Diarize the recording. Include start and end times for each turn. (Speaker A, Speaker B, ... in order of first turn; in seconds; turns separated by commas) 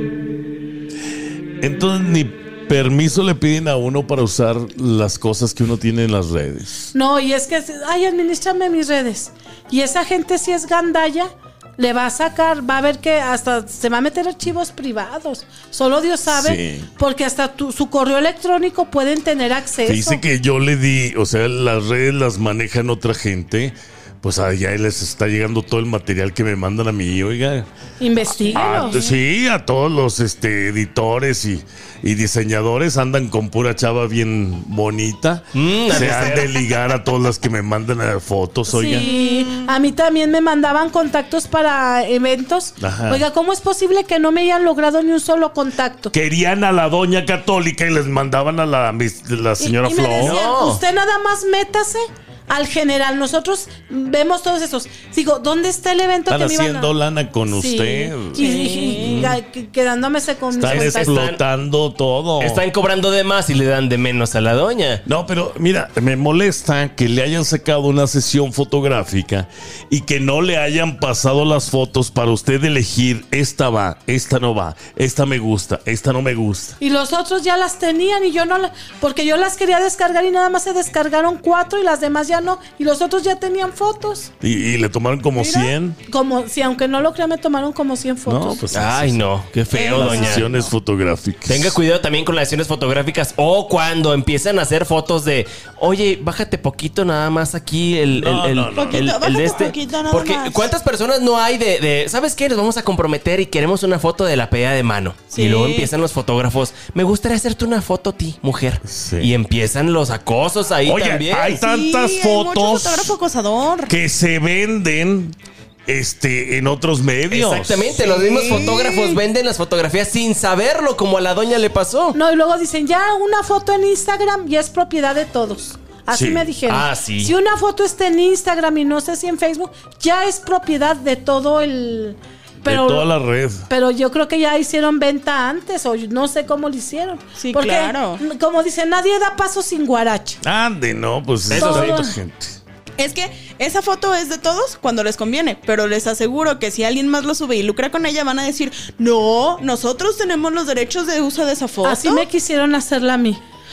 Speaker A: 1.6-6.9, Speaker B: 6.9-20.2, Speaker A: 16.3-16.9, Speaker A: 19.8-27.7, Speaker B: 28.0-29.0, Speaker A: 28.4-39.1, Speaker C: 28.5-29.2, Speaker D: 35.5-36.6, Speaker B: 38.7-46.1, Speaker C: 38.8-39.7, Speaker A: 42.8-43.2, Speaker A: 46.1-50.4, Speaker B: 49.6-56.9, Speaker D: 50.1-50.8, Speaker A: 56.3-59.4, Speaker B: 57.5-61.1, Speaker C: 58.4-59.3, Speaker A: 60.5-62.6, Speaker D: 60.6-61.4, Speaker D: 62.4-65.0, Speaker A: 65.0-76.8, Speaker B: 76.8-84.3, Speaker A: 84.4-86.0, Speaker B: 85.5-88.6, Speaker A: 88.2-89.2, Speaker D: 88.7-90.5, Speaker C: 89.7-90.7, Speaker A: 89.9-91.8, Speaker D: 91.5-111.6, Speaker A: 98.1-99.1, Speaker C: 98.8-100.7, Speaker C: 105.3-105.9, Speaker A: 108.8-109.3, Speaker A: 110.8-113.1, Speaker C: 111.5-113.9, Speaker A: 113.9-115.3, Speaker A: 115.9-117.9, Speaker D: 117.3-122.2, Speaker C: 118.0-119.2, Speaker B: 122.1-133.1, Speaker A: 126.1-126.5, Speaker D: 126.7-127.3, Speaker A: 132.6-133.7, Speaker B: 133.7-140.4, Speaker C: 137.4-138.2, Speaker A: 140.4-142.6, Speaker D: 141.5-142.0, Speaker B: 141.5-142.1, Speaker C: 143.0-152.3, Speaker B: 151.8-153.4